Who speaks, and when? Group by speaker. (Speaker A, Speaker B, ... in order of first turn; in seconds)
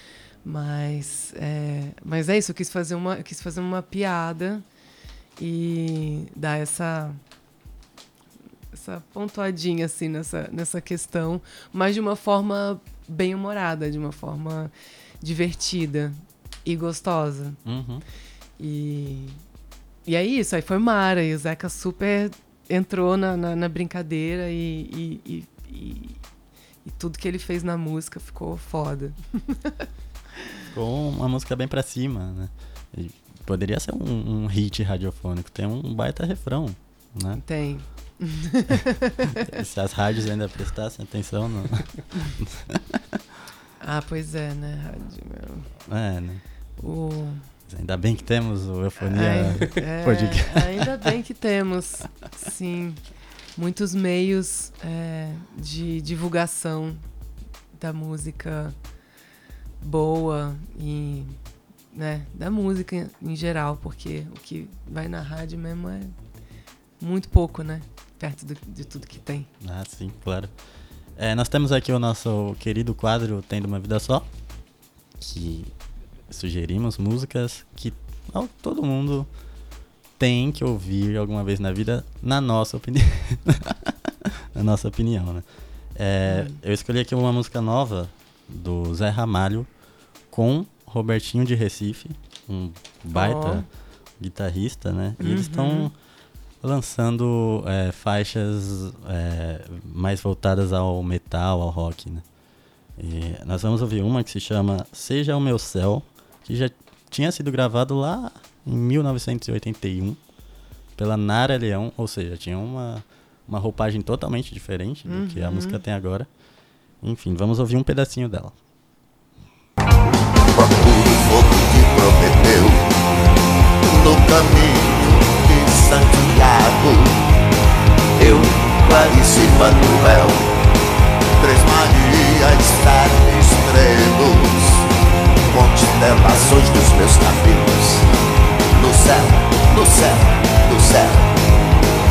Speaker A: 0.4-4.6, 5.4-7.2, 8.7-17.6, 18.6-19.4, 20.1-26.2, 26.8-29.7, 37.4-39.6, 43.8-45.7, 46.8-47.5, 49.0-53.0, 53.5-57.0, 57.8-58.8, 59.8-61.4, 61.9-66.1, 67.0-69.5, 86.3-86.6, 93.1-93.7, 95.2-95.9, 115.1-115.8
Speaker B: 17.6-18.1, 30.7-37.4, 39.3-43.2, 45.9-46.4, 47.7-51.1, 69.6-70.5, 71.2-74.3, 75.2-75.7, 76.3-79.3, 80.2-89.7, 90.3-93.7, 94.2-95.9, 96.6-102.2, 103.0-110.2, 111.0-116.3, 117.0-118.6
Speaker C: 120.5-122.9, 123.8-127.2, 128.2-130.5, 131.4-134.9, 135.5-138.1, 138.7-141.3